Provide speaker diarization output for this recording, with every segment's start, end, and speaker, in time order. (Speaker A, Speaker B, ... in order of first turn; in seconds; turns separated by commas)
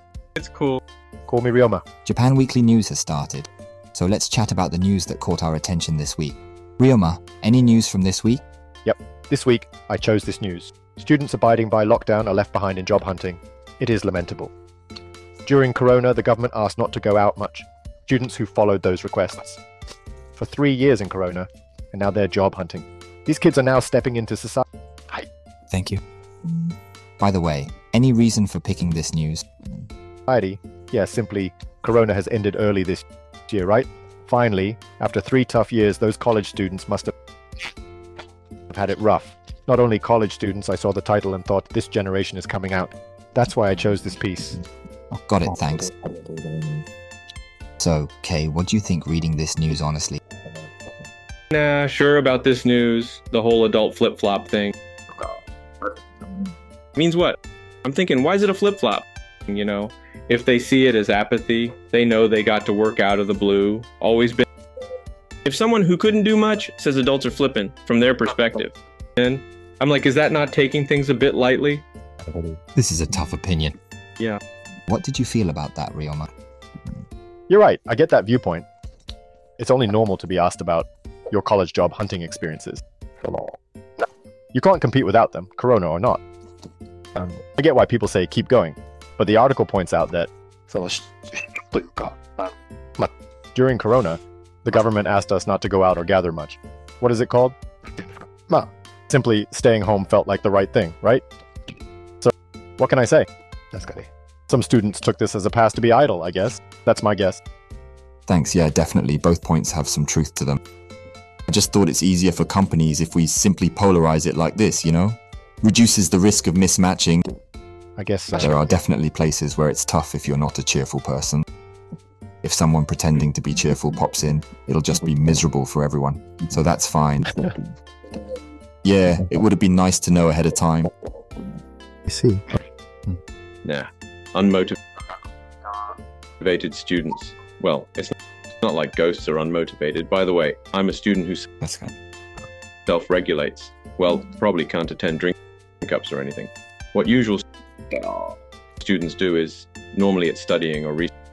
Speaker A: 0.4-0.8, Speaker B: 1.3-1.8, Speaker C: 2.0-8.4, Speaker B: 8.8-14.5, Speaker B: 15.4-19.6, Speaker B: 20.4-24.6, Speaker C: 25.7-26.0, Speaker C: 27.2-29.5, Speaker B: 30.3-37.1, Speaker B: 38.7-44.6, Speaker C: 45.1-46.0, Speaker C: 47.8-50.2, Speaker A: 51.5-54.7, Speaker A: 57.0-64.5, Speaker A: 65.5-71.8, Speaker C: 72.7-73.8, Speaker C: 74.9-76.3, Speaker B: 77.5-78.7, Speaker B: 79.6-83.5, Speaker B: 84.5-86.2, Speaker B: 87.4-90.3, Speaker B: 93.0-97.6, Speaker B: 98.5-101.2, Speaker B: 102.2-107.4, Speaker C: 108.3-110.6, Speaker C: 111.5-117.2, Speaker B: 118.0-118.7, Speaker C: 118.4-121.5, Speaker C: 122.4-127.4, Speaker C: 128.8-130.9, Speaker B: 132.1-132.4, Speaker A: 133.6-134.8, Speaker A: 136.4-141.5, Speaker C: 141.6-141.9, Speaker A: 142.9-147.4, Speaker A: 148.0-148.2, Speaker A: 148.8-151.1